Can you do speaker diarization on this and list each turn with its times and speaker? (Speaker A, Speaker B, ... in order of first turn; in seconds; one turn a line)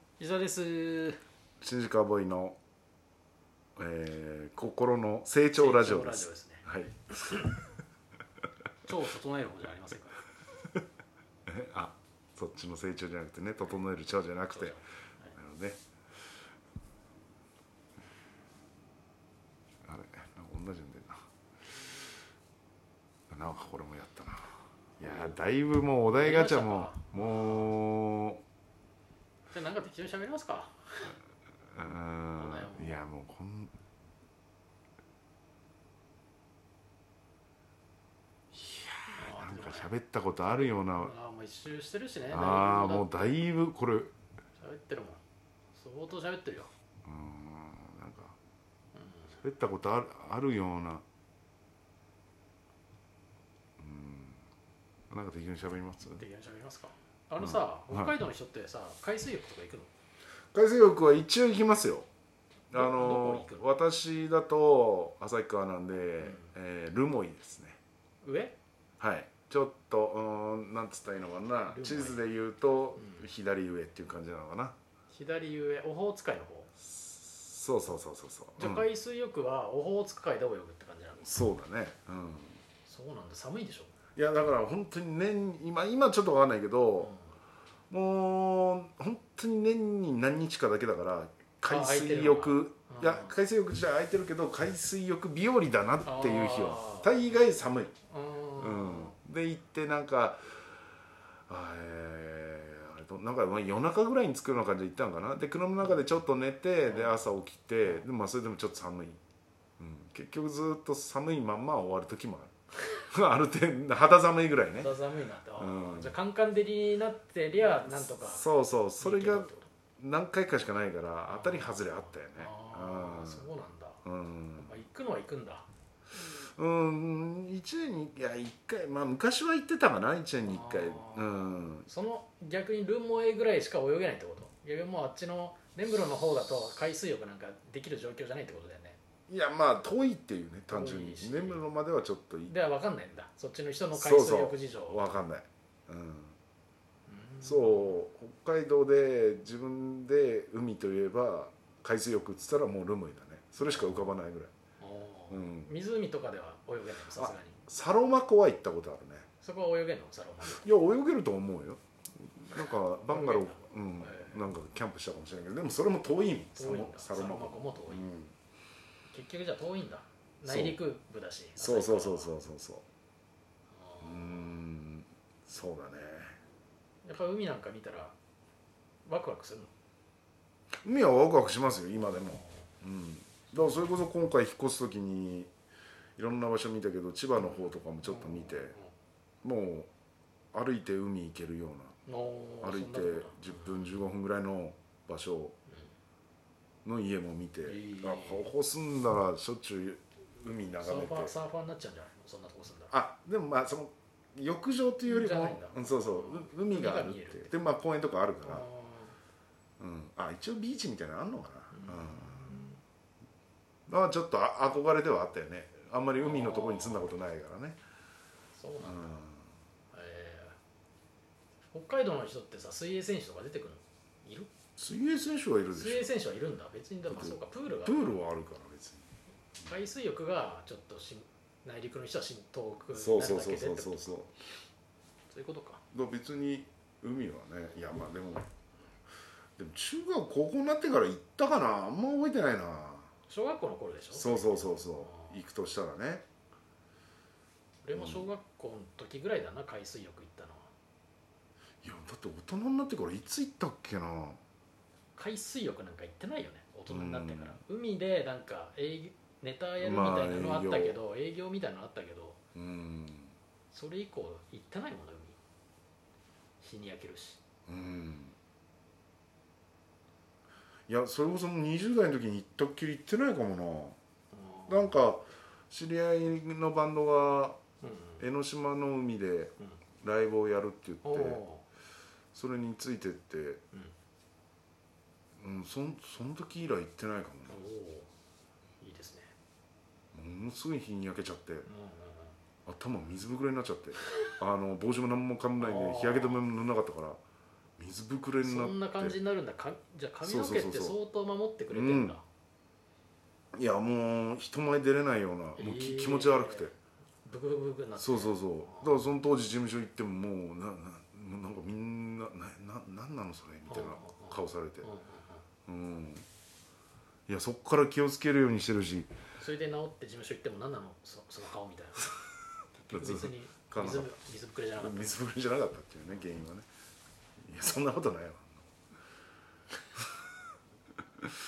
Speaker A: 0.2-1.2
Speaker B: 1.6-2.6
Speaker B: 3.8-7.5
Speaker A: 5.5-6.6
Speaker A: 8.8-10.2
Speaker B: 11.5-14.8
Speaker A: 14.5-15.3
Speaker B: 15.3-15.8
Speaker B: 19.8-21.2
Speaker B: 23.3-28.4
Speaker A: 25.0-25.3
Speaker A: 26.1-27.8
Speaker A: 29.5-31.2
Speaker B: 31.7-33.7
Speaker A: 32.3-33.0
Speaker B: 38.5-41.1
Speaker A: 39.1-39.9
Speaker A: 40.5-43.3
Speaker B: 42.3-44.1
Speaker A: 44.6-45.2
Speaker A: 45.7-46.7
Speaker B: 47.0-48.4
Speaker A: 48.9-49.4
Speaker B: 49.4-51.0
Speaker B: 53.8-54.4
Speaker B: 55.1-56.2
Speaker A: 56.1-59.9
Speaker B: 57.4-58.1
Speaker B: 60.5-62.1
Speaker B: 62.7-67.8
Speaker A: 62.7-63.6
Speaker A: 66.2-66.5
Speaker A: 68.2-68.6
Speaker B: 69.0-74.7
Speaker A: 71.7-72.2
Speaker A: 75.1-76.7
Speaker B: 76.8-78.8
Speaker A: 78.6-81.3
Speaker B: 81.2-82.6
Speaker A: 82.9-83.9
Speaker B: 84.2-87.1
Speaker B: 87.9-97.9
Speaker A: 91.7-93.4
Speaker A: 96.0-97.2
Speaker A: 98.0-99.1
Speaker B: 98.5-100.6
Speaker B: 101.5-109.2
Speaker A: 106.9-107.2
Speaker B: 109.8-115.0
Speaker A: 114.8-118.5
Speaker B: 115.6-116.2
Speaker B: 117.8-123.5
Speaker A: 119.0-119.7
Speaker A: 121.3-124.0
Speaker B: 124.0-124.8
Speaker A: 124.6-125.7
Speaker B: 126.3-131.9
Speaker A: 130.4-139.0
Speaker B: 139.3-142.5
Speaker A: 140.7-141.6
Speaker A: 142.5-145.2
Speaker B: 143.9-146.3
Speaker A: 147.1-147.9
Speaker B: 147.4-154.5
Speaker A: 153.6-154.1
Speaker A: 154.8-157.6
Speaker B: 155.3-155.7
Speaker B: 157.1-159.3
Speaker A: 159.4-160.7
Speaker B: 160.4-168.3
Speaker A: 162.6-164.4
Speaker A: 166.6-168.1
Speaker A: 169.1-172.3
Speaker B: 170.4-170.8
Speaker B: 171.6-172.8
Speaker A: 173.7-174.6
Speaker B: 174.0-176.4
Speaker A: 177.0-178.1
Speaker A: 179.0-179.7
Speaker B: 180.8-185.5
Speaker B: 186.2-188.8
Speaker A: 187.4-188.9
Speaker B: 189.4-189.9
Speaker B: 190.5-192.0
Speaker A: 192.1-193.9
Speaker B: 192.6-195.6
Speaker B: 196.8-201.3
Speaker A: 197.7-198.5
Speaker A: 200.8-202.9
Speaker B: 202.9-208.7
Speaker A: 205.0-207.5
Speaker A: 208.4-209.2
Speaker B: 209.8-212.7
Speaker A: 211.7-212.8
Speaker B: 213.9-217.8
Speaker A: 216.2-217.1
Speaker A: 218.5-219.2
Speaker B: 218.8-219.4
Speaker A: 219.9-220.6
Speaker A: 221.7-224.5
Speaker B: 224.8-226.1
Speaker A: 225.7-228.1
Speaker B: 227.1-229.1
Speaker A: 229.6-234.2
Speaker B: 232.9-234.4
Speaker A: 235.3-235.8
Speaker B: 235.9-238.5
Speaker B: 239.6-243.1
Speaker A: 243.3-245.3
Speaker B: 244.1-246.2
Speaker A: 247.8-250.7
Speaker B: 247.9-248.3
Speaker B: 251.8-254.4
Speaker A: 255.2-262.4
Speaker B: 256.9-257.6
Speaker B: 259.8-261.0
Speaker B: 262.5-263.3
Speaker A: 263.7-265.4
Speaker A: 266.6-267.4
Speaker B: 267.7-268.3
Speaker B: 270.9-274.0
Speaker A: 274.3-275.0
Speaker B: 274.7-277.6
Speaker A: 277.8-278.2
Speaker B: 278.2-281.4
Speaker A: 281.0-281.6
Speaker B: 282.3-283.6
Speaker B: 285.4-287.6
Speaker A: 287.5-288.1
Speaker A: 288.8-289.3
Speaker B: 290.1-291.7
Speaker A: 291.7-292.4
Speaker B: 292.6-297.2
Speaker A: 295.6-296.4
Speaker B: 297.8-299.2
Speaker A: 298.4-302.2
Speaker B: 300.2-301.0
Speaker B: 301.7-302.2
Speaker B: 303.5-306.7
Speaker A: 305.6-306.7
Speaker A: 307.2-308.9
Speaker B: 308.0-314.9
Speaker A: 313.7-315.4
Speaker B: 315.6-316.2
Speaker B: 317.3-319.1
Speaker A: 319.4-322.1
Speaker A: 322.8-325.2
Speaker B: 322.9-324.1
Speaker B: 324.8-326.6
Speaker B: 327.4-328.6